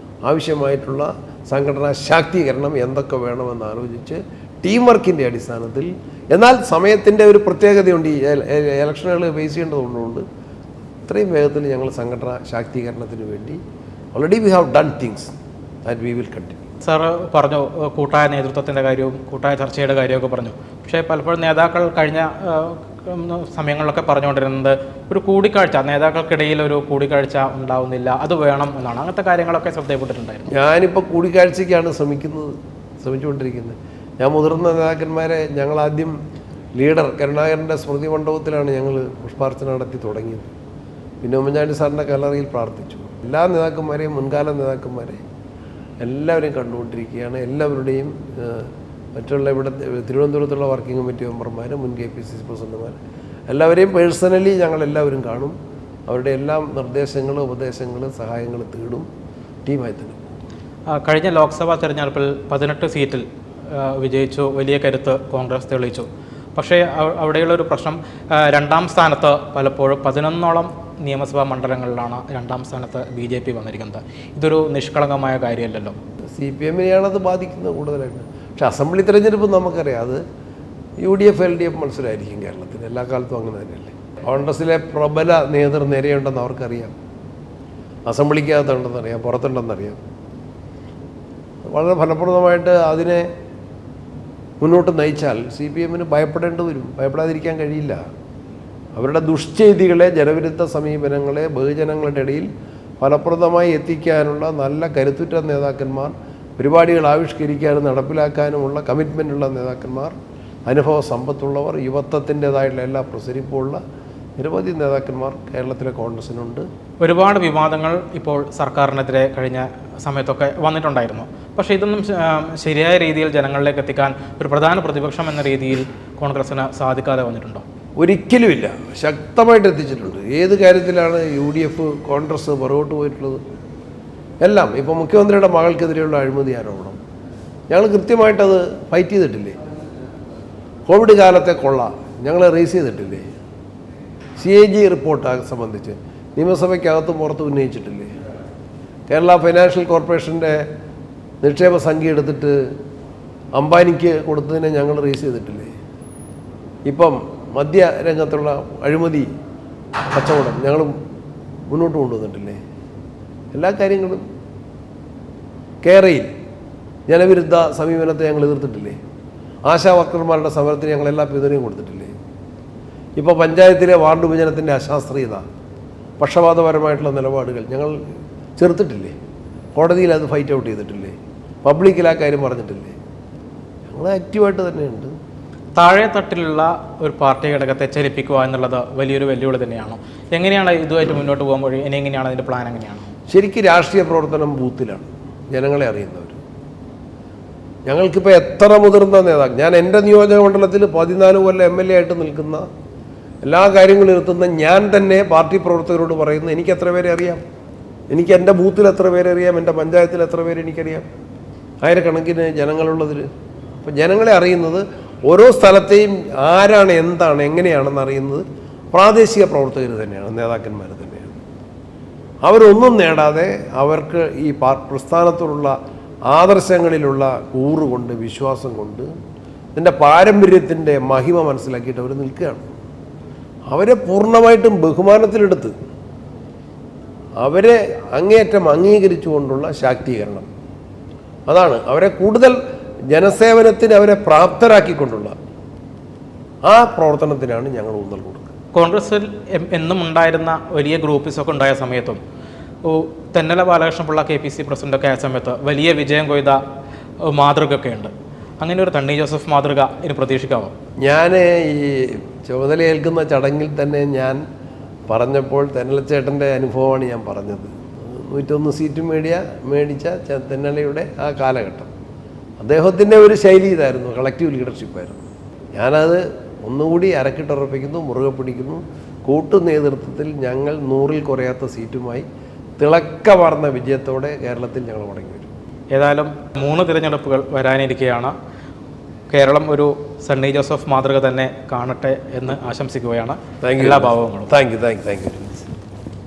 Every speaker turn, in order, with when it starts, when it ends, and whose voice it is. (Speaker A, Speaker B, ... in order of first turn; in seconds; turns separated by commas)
Speaker A: 0.3-10.2, Speaker A: 11.1-13.6, Speaker A: 14.2-15.3, Speaker A: 15.9-16.6, Speaker B: 16.8-30.5, Speaker A: 30.5-36.2, Speaker A: 36.8-40.5, Speaker A: 41.2-45.2, Speaker A: 46.0-53.0, Speaker A: 53.5-55.6, Speaker A: 56.1-59.1, Speaker A: 59.6-60.4, Speaker B: 60.9-76.0, Speaker A: 76.3-80.2, Speaker A: 81.0-86.9, Speaker A: 88.1-90.0, Speaker A: 91.7-93.3, Speaker A: 94.6-98.0, Speaker A: 99.0-102.5, Speaker A: 103.0-110.1, Speaker A: 110.7-113.8, Speaker A: 114.4-116.7, Speaker B: 117.0-127.6, Speaker A: 128.0-133.4, Speaker A: 134.4-137.0, Speaker A: 137.7-139.6, Speaker A: 140.9-143.3, Speaker A: 144.4-148.1, Speaker A: 149.1-150.7, Speaker A: 151.4-152.7, Speaker A: 153.6-155.7, Speaker A: 156.9-159.3, Speaker A: 160.1-161.0, Speaker A: 161.7-162.6, Speaker A: 163.5-164.2, Speaker A: 165.8-166.3, Speaker A: 167.1-169.0, Speaker A: 169.7-172.1, Speaker A: 173.2-175.4, Speaker A: 176.2-178.0, Speaker A: 178.6-179.1, Speaker A: 179.8-183.0, Speaker A: 183.9-185.1, Speaker B: 185.8-193.1, Speaker A: 193.3-196.4, Speaker A: 197.9-202.7, Speaker A: 203.4-207.4, Speaker A: 208.1-211.1, Speaker A: 211.8-213.3, Speaker A: 213.8-221.4, Speaker A: 222.4-225.8, Speaker A: 226.3-229.1, Speaker A: 229.8-232.7, Speaker A: 233.7-235.7, Speaker A: 237.4-240.5, Speaker A: 241.5-242.6, Speaker A: 243.1-245.3, Speaker A: 246.7-248.5, Speaker B: 248.7-252.2, Speaker B: 252.8-256.6, Speaker B: 257.3-260.7, Speaker A: 261.0-264.4, Speaker A: 265.1-271.9, Speaker A: 272.6-282.2, Speaker A: 282.8-285.5, Speaker B: 285.9-288.3, Speaker B: 289.3-294.5, Speaker A: 293.6-295.6